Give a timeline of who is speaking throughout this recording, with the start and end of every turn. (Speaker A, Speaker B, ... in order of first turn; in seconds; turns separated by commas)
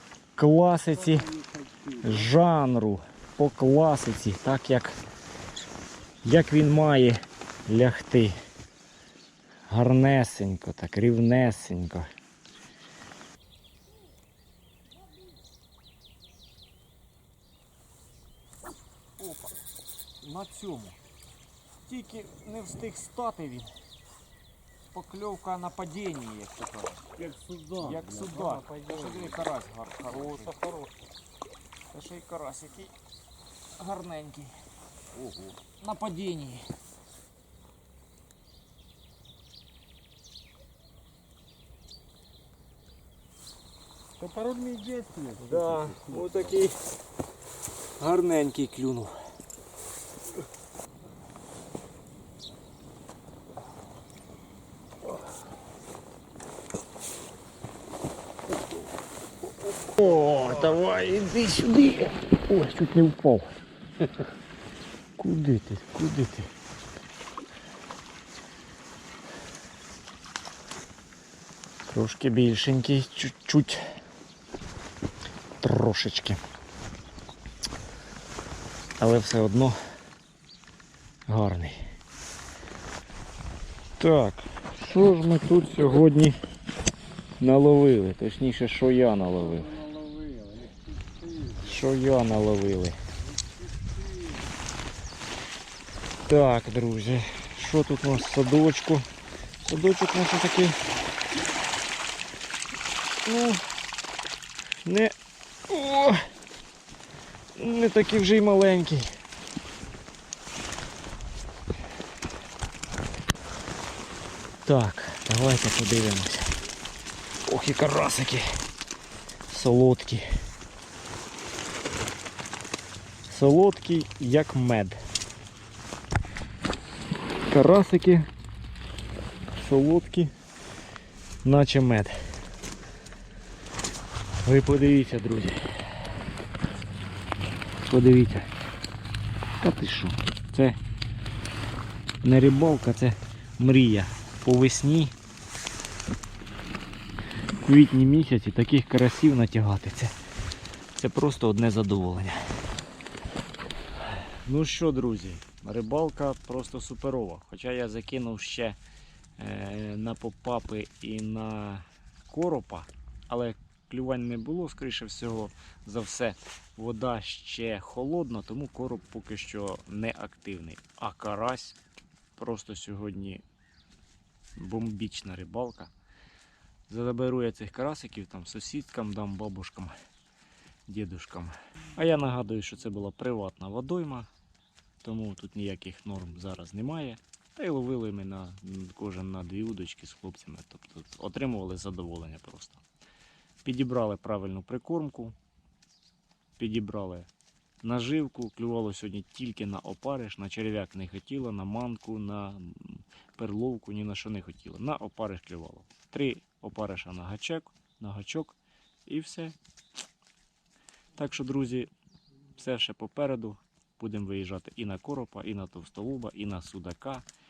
Speaker A: 0.3-1.3, Speaker B: 1.1-2.1, Speaker A: 2.0-5.0, Speaker A: 6.2-8.3, Speaker A: 9.7-12.1, Speaker A: 19.2-19.5, Speaker A: 20.2-21.0, Speaker A: 21.8-23.7, Speaker A: 24.9-27.0, Speaker B: 27.2-29.2, Speaker A: 27.8-30.6, Speaker B: 30.3-30.9, Speaker A: 31.9-32.9, Speaker A: 33.8-34.5, Speaker A: 35.6-36.7, Speaker B: 44.2-46.3, Speaker A: 45.4-46.8, Speaker A: 48.0-49.1, Speaker A: 59.9-63.5, Speaker A: 65.2-66.5, Speaker A: 71.9-73.8, Speaker A: 75.6-76.4, Speaker A: 79.0-79.8, Speaker A: 81.3-81.8, Speaker A: 84.0-86.4, Speaker A: 87.4-89.7, Speaker B: 89.5-91.7, Speaker A: 91.6-93.0, Speaker B: 93.4-94.4, Speaker A: 96.3-99.0, Speaker A: 99.6-100.8, Speaker A: 103.2-103.6, Speaker A: 104.8-105.1, Speaker A: 105.7-106.2, Speaker A: 107.5-109.1, Speaker A: 114.6-116.5, Speaker A: 117.4-118.5, Speaker A: 119.5-120.2, Speaker A: 123.3-125.0, Speaker A: 127.5-128.3, Speaker A: 129.5-130.3, Speaker A: 131.4-132.1, Speaker A: 134.4-135.6, Speaker A: 137.8-138.5, Speaker A: 139.6-140.8, Speaker A: 142.2-145.2, Speaker A: 147.6-150.1, Speaker A: 150.9-152.5, Speaker A: 154.2-158.8, Speaker A: 159.4-171.8, Speaker A: 172.3-173.4, Speaker A: 174.6-175.9, Speaker A: 176.9-179.9, Speaker A: 180.9-184.3, Speaker A: 185.0-192.8, Speaker A: 193.6-195.3, Speaker A: 196.6-197.3, Speaker A: 197.8-209.6, Speaker A: 211.2-211.9, Speaker A: 212.6-217.2